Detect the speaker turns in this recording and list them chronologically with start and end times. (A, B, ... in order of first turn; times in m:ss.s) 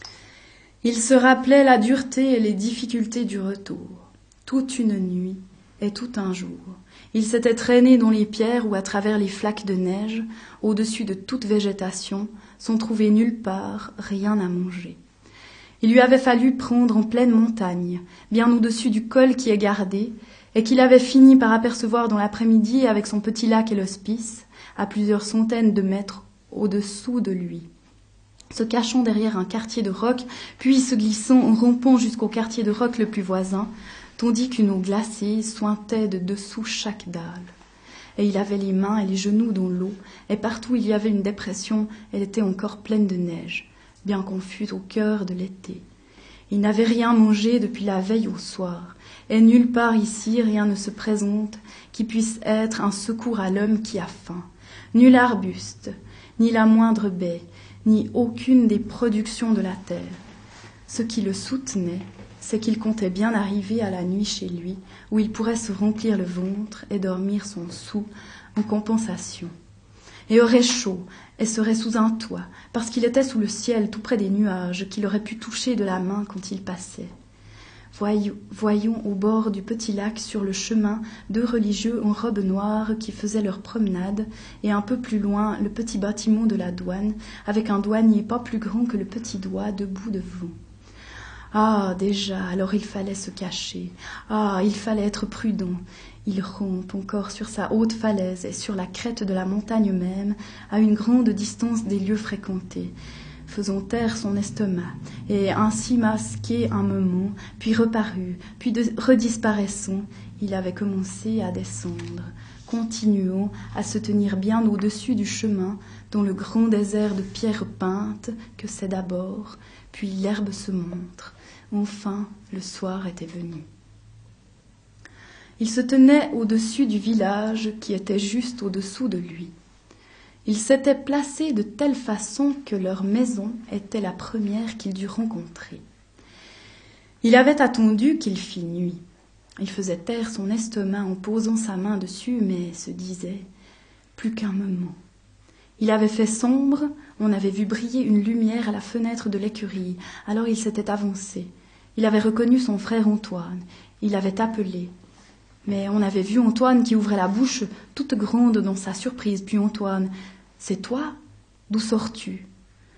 0:00.8-0:15.0 A
0:15.8-0:27.7 A
0:28.5-0:37.5 A
0:38.2-0:45.8 A
0:46.5-1:00.2 A
1:00.9-1:09.5 A
1:10.3-1:17.1 A
1:17.9-1:30.5 A
1:31.5-1:42.9 A
1:43.5-2:03.7 A
2:05.6-2:09.5 A
2:10.5-2:15.8 A
2:17.2-2:19.0 A
2:19.6-2:23.5 A
2:24.2-2:25.0 A
2:25.8-2:34.9 A
2:35.6-2:41.2 A
2:41.7-2:42.5 A